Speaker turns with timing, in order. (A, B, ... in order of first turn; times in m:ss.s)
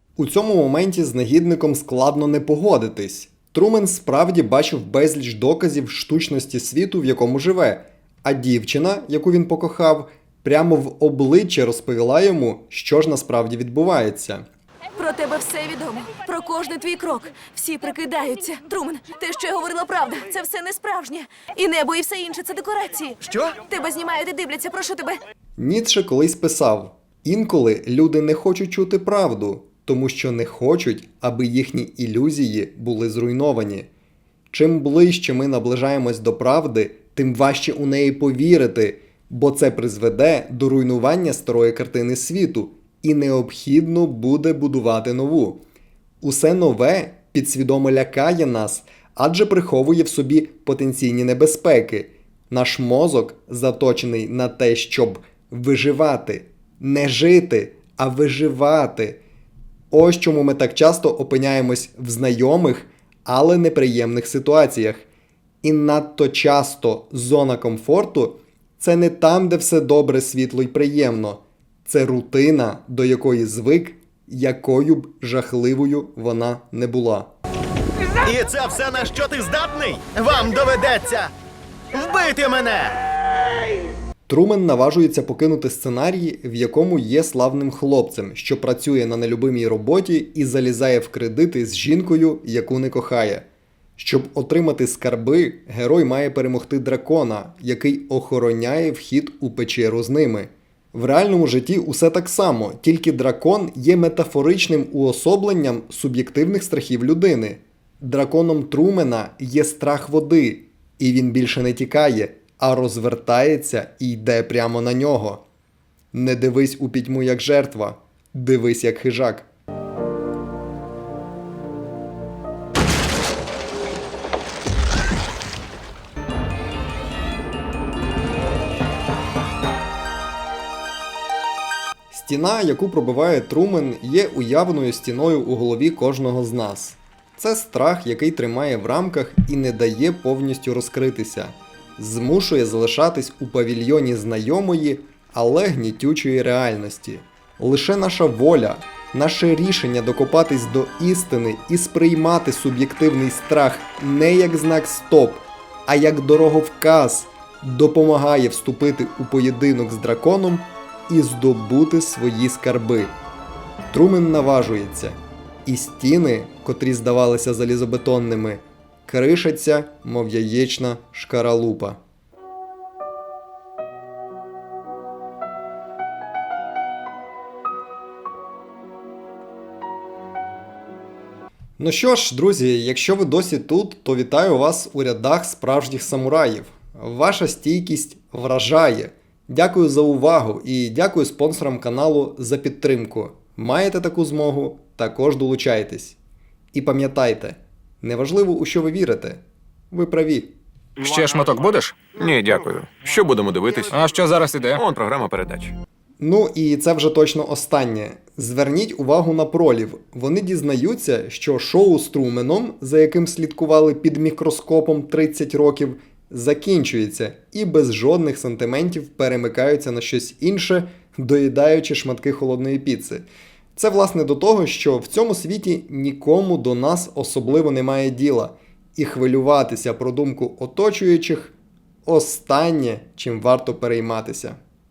0:00.2-0:14.4 A
0:15.0-0:25.2 B
0:23.2-0:23.6 C
0:25.6-0:33.9 A
0:34.5-0:45.6 A
0:46.2-0:59.2 A
0:59.9-1:05.0 A
1:05.6-1:17.3 A
1:18.2-1:21.3 C
1:21.9-1:23.1 C
1:24.3-1:33.5 A
1:34.0-1:55.4 A
1:56.1-1:59.5 A
2:12.1-2:43.2 A
2:43.9-2:52.0 A
3:01.8-3:16.2 A
3:16.7-3:20.6 A
3:21.0-3:22.0 D
3:22.1-3:24.0 E
3:23.9-3:24.8 D
3:24.8-3:25.8 E
3:26.2-3:54.6 A